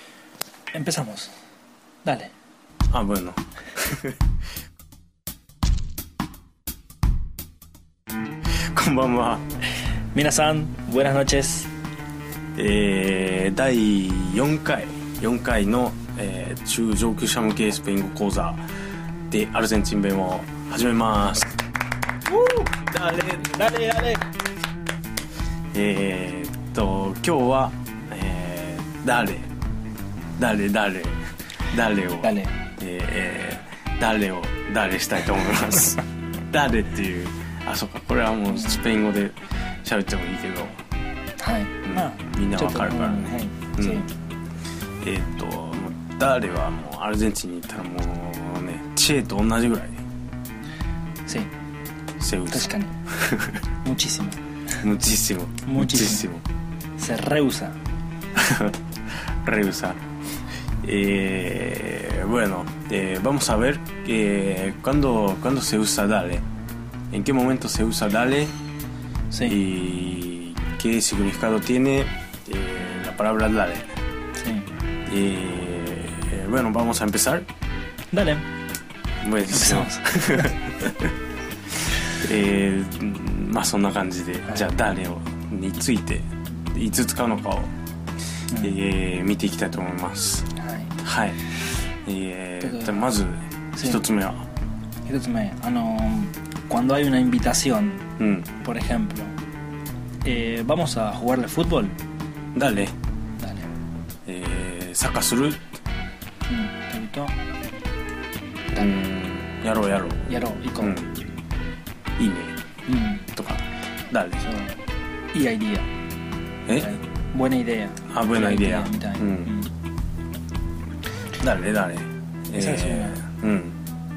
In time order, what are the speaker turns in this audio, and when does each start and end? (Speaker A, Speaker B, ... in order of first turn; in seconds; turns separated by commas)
Speaker A: 0.7-1.3, Speaker A: 2.0-2.3, Speaker B: 2.9-4.2, Speaker B: 8.7-9.4, Speaker A: 10.1-11.7, Speaker B: 12.6-18.6, Speaker B: 19.3-21.6, Speaker A: 22.3-22.6, Speaker B: 22.6-23.7, Speaker A: 23.5-24.2, Speaker B: 25.7-29.5, Speaker B: 30.4-40.8, Speaker A: 32.2-32.5, Speaker A: 38.5-38.8, Speaker A: 41.4-44.1, Speaker B: 41.9-44.1, Speaker B: 45.0-50.0, Speaker A: 51.3-51.5, Speaker B: 52.2-53.6, Speaker A: 52.5-53.0, Speaker A: 53.8-54.4, Speaker B: 54.8-56.4, Speaker A: 55.7-56.3, Speaker A: 57.0-57.8, Speaker B: 58.4-58.8, Speaker B: 59.4-60.0, Speaker B: 60.8-66.5, Speaker B: 67.1-68.6, Speaker A: 69.3-69.6, Speaker B: 69.4-73.8, Speaker A: 74.4-74.7, Speaker B: 75.1-77.5, Speaker A: 78.1-78.5, Speaker B: 79.2-81.1, Speaker A: 79.5-80.5, Speaker B: 82.1-87.7, Speaker B: 88.6-91.4, Speaker A: 90.6-91.0, Speaker B: 92.0-94.5, Speaker A: 92.6-93.1, Speaker A: 95.1-98.1, Speaker B: 98.2-98.5, Speaker A: 98.6-99.3, Speaker A: 100.2-102.0, Speaker B: 102.5-102.9, Speaker A: 103.4-103.7, Speaker B: 104.3-105.6, Speaker A: 106.5-107.4, Speaker A: 108.7-109.1, Speaker B: 108.8-111.1, Speaker A: 110.3-111.0, Speaker B: 112.2-112.6, Speaker A: 112.9-113.3, Speaker B: 113.3-114.5, Speaker A: 114.4-114.8, Speaker A: 115.3-115.9, Speaker B: 116.7-117.0, Speaker A: 116.8-119.7, Speaker B: 118.1-119.5, Speaker B: 121.4-123.8, Speaker A: 122.5-123.2